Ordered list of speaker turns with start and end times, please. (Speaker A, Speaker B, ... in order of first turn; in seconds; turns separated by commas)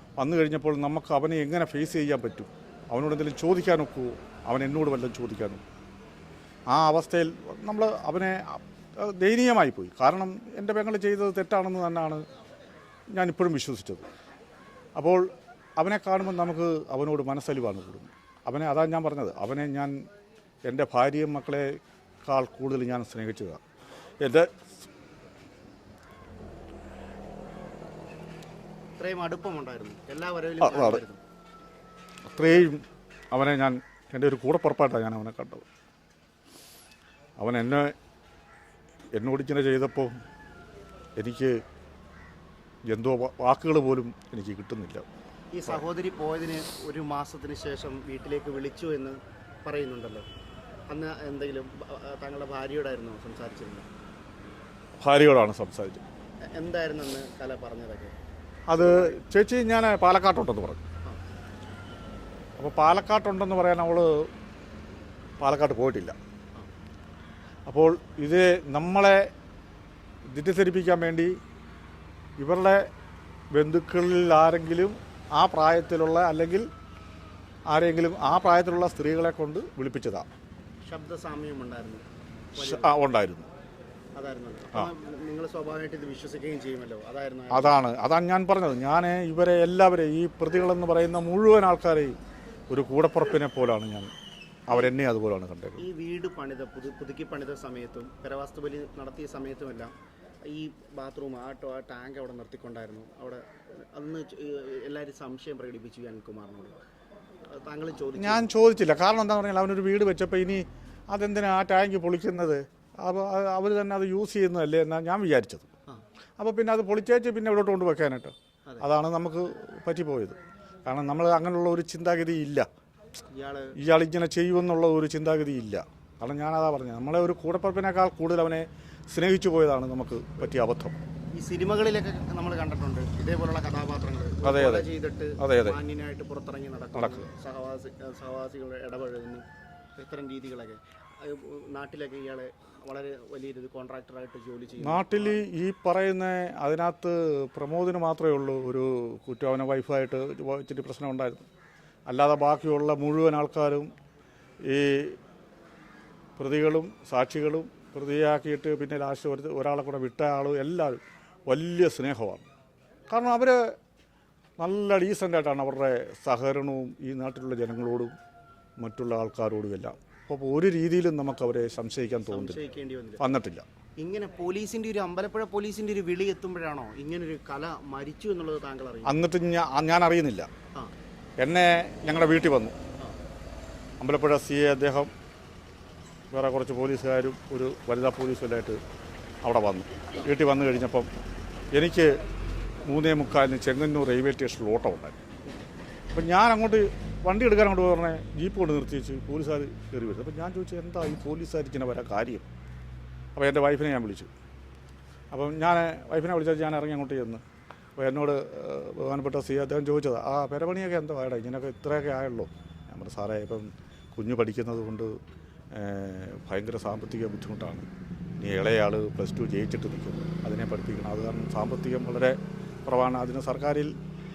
Speaker A: 0.2-5.6, Speaker A: 6.7-12.2, Speaker A: 13.1-14.0, Speaker A: 14.9-20.0, Speaker A: 20.6-23.6, Speaker A: 24.2-24.7, Speaker B: 29.0-31.2, Speaker A: 30.6-31.0, Speaker A: 32.3-35.7, Speaker A: 37.4-37.9, Speaker A: 39.1-40.2, Speaker A: 41.2-41.6, Speaker A: 42.9-45.0, Speaker B: 45.5-50.2, Speaker B: 50.9-53.9, Speaker A: 55.0-56.0, Speaker B: 56.5-58.1, Speaker A: 58.7-60.8, Speaker B: 58.7-59.2, Speaker A: 62.6-64.3, Speaker A: 65.4-66.2, Speaker A: 67.7-69.3, Speaker A: 70.3-71.3, Speaker A: 72.4-72.9, Speaker A: 73.5-76.7, Speaker A: 77.7-80.3, Speaker B: 80.8-83.0, Speaker A: 82.6-83.5, Speaker B: 84.1-87.8, Speaker A: 87.5-92.2, Speaker A: 92.7-94.1, Speaker A: 94.7-95.8, Speaker B: 95.8-99.9, Speaker B: 100.5-106.8, Speaker B: 107.5-108.5, Speaker A: 108.2-115.7, Speaker A: 116.4-122.7, Speaker B: 123.3-123.8, Speaker A: 123.8-130.9, Speaker B: 131.3-145.4, Speaker A: 134.4-134.9, Speaker A: 135.4-135.8, Speaker A: 136.9-137.2, Speaker A: 144.8-151.4, Speaker A: 152.1-153.9, Speaker A: 154.7-155.2, Speaker A: 156.4-162.4, Speaker A: 163.1-163.7, Speaker A: 164.6-168.1, Speaker A: 168.8-172.6, Speaker B: 172.2-173.2, Speaker A: 173.2-173.6, Speaker B: 174.0-179.1, Speaker A: 179.0-180.5, Speaker A: 181.4-182.8, Speaker A: 184.0-185.1, Speaker A: 186.3-188.8, Speaker A: 189.4-191.1, Speaker A: 191.7-192.2, Speaker A: 192.8-195.2, Speaker A: 196.1-202.5, Speaker A: 203.3-204.3, Speaker A: 205.3-207.4, Speaker A: 208.0-215.2, Speaker A: 215.7-217.9, Speaker A: 218.4-223.9